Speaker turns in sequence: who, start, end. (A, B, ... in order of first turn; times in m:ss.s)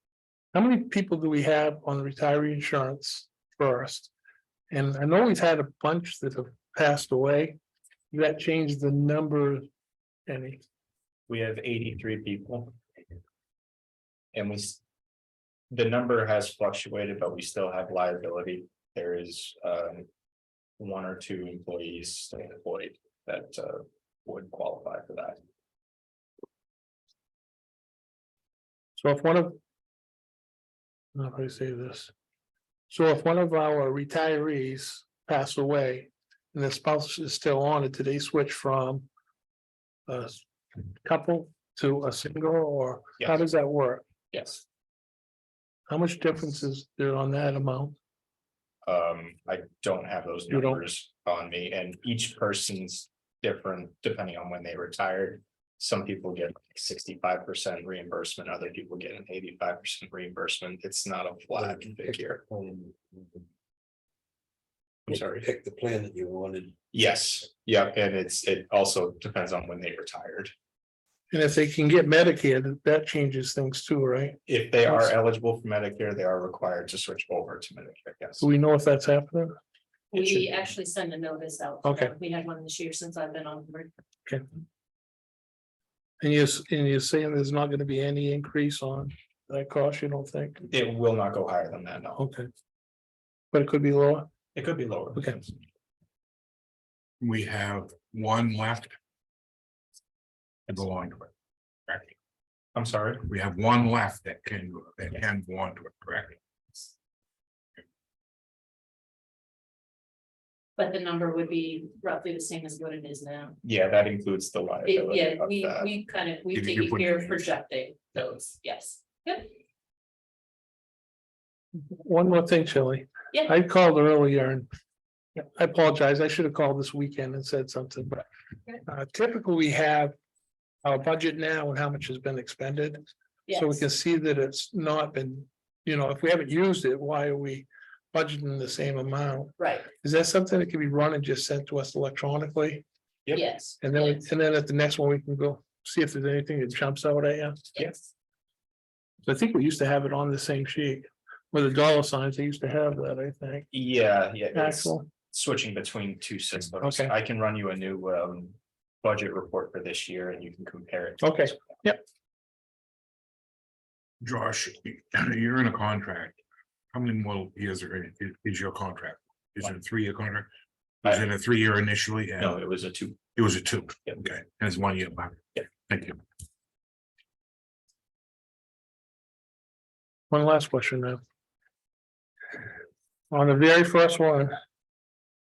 0:00.5-0:04.1 A
0:04.7-0:07.6 A
0:08.1-0:09.6 A
0:10.3-0:10.6 A
0:11.3-0:12.8 B
0:14.3-0:14.8 B
0:15.7-0:20.0 B
0:20.8-0:25.4 B
0:29.0-0:29.6 A
0:31.1-0:32.1 A
0:32.9-0:39.1 A
0:40.1-0:44.0 A
0:44.3-0:44.6 B
0:45.9-0:47.9 A
0:48.8-1:02.4 B
0:50.5-0:50.8 A
1:01.6-1:03.4 C
1:05.1-1:06.8 C
1:05.1-1:05.4 B
1:06.9-1:10.5 B
1:11.3-1:15.1 A
1:14.4-1:18.4 B
1:18.4-1:19.6 A
1:20.1-1:23.9 D
1:21.8-1:22.1 A
1:26.2-1:30.6 A
1:30.7-1:32.2 B
1:32.2-1:32.5 A
1:33.5-1:34.3 A
1:34.5-1:35.5 B
1:35.1-1:35.4 A
1:37.2-1:39.0 E
1:40.7-1:41.3 E
1:41.9-1:42.1 E
1:42.7-1:43.2 B
1:43.2-1:46.4 E
1:50.8-1:53.6 D
1:53.6-1:55.9 B
1:54.8-1:59.5 D
1:56.5-1:57.4 E
2:01.9-2:04.7 A
2:05.4-2:08.2 A
2:08.8-2:10.1 A
2:10.8-2:22.8 A
2:13.5-2:13.8 D
2:19.6-2:19.9 D
2:23.3-2:24.2 D
2:23.8-2:27.6 A
2:29.2-2:33.7 A
2:33.7-2:41.6 B
2:34.5-2:35.1 A
2:36.8-2:37.1 A
2:41.2-2:42.0 A
2:44.2-2:46.4 E
2:46.9-2:50.5 E
2:51.0-2:52.5 E
2:52.4-2:53.2 B
2:53.4-2:56.2 E
3:00.3-3:01.2 A
3:03.3-3:04.5 A